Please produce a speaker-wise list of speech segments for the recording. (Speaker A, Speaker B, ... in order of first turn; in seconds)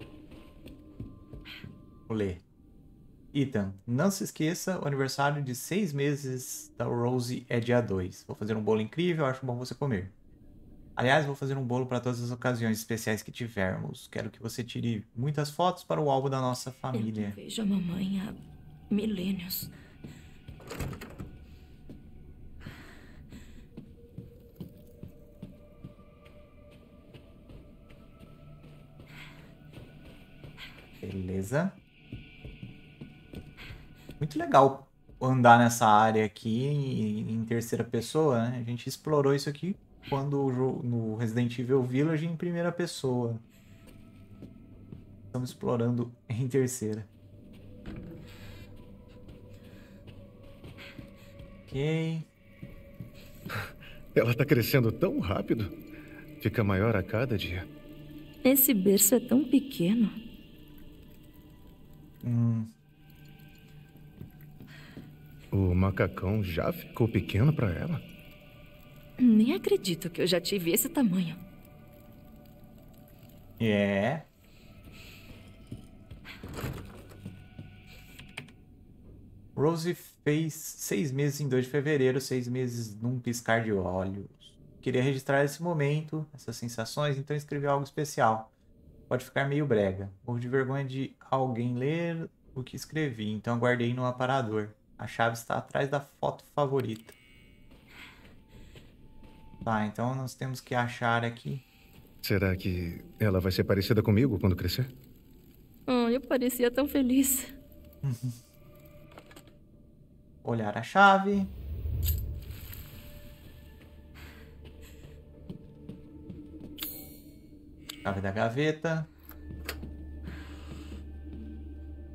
Speaker A: 2.1-2.4, 3.3-10.1, 11.0-17.4, 31.0-31.8, 34.2-43.4, 45.3-47.1, 51.7-52.3, 62.2-62.7, 73.6-74.3, 79.5-88.5, 89.1-97.1, 99.6-101.6, 108.0-108.4, 110.4-111.5, 118.0-119.1
Speaker B: 16.9-19.7, 58.4-60.1, 69.2-71.4, 105.9-107.5
Speaker C: 54.1-55.7, 56.4-57.7, 65.5-68.0, 102.2-104.9